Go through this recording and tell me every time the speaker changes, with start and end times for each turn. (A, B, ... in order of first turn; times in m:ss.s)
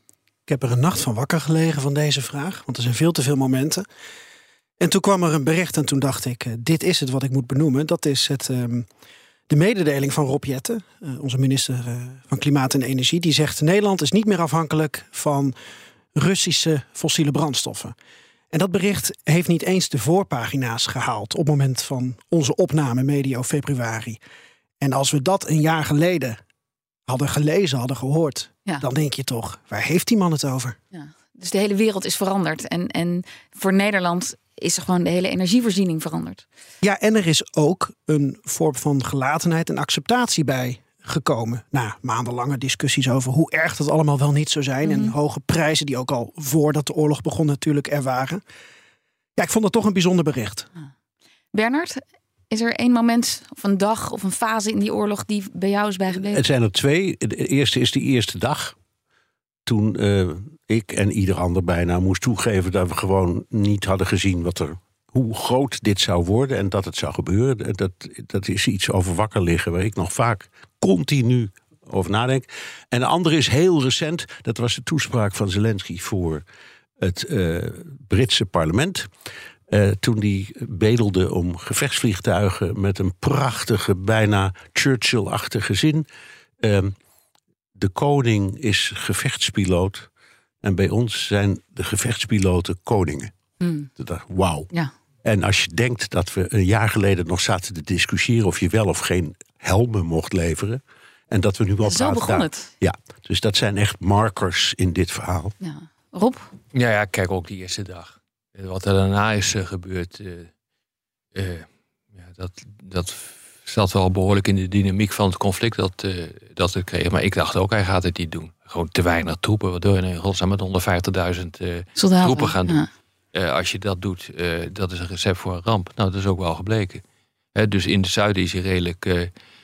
0:00.5-0:03.8 A
0:04.8-0:08.9 A
0:09.5-0:15.5 A
0:16.1-0:17.9 A
0:18.5-0:24.2 A
0:24.8-0:26.4 A
0:27.1-0:30.8 A
0:30.9-0:36.4 B
0:36.8-0:48.4 A
0:44.8-0:45.1 B
0:49.4-0:50.6 A
0:51.5-0:56.4 B
0:56.3-0:58.7 C
0:59.7-1:16.4 C
1:17.0-1:19.1 C
1:19.7-1:26.0 C
1:26.6-1:26.9 C
1:27.8-1:30.0 C
1:30.6-1:33.3 C
1:33.6-1:33.9 B
1:34.0-1:34.6 C
1:35.2-1:45.5 C
1:41.8-1:42.7 B
1:45.6-1:46.5 B
1:46.7-1:50.5 D
1:51.4-2:02.8 D
2:02.0-2:02.8 B
2:03.3-2:07.0 D
2:07.5-2:09.3 D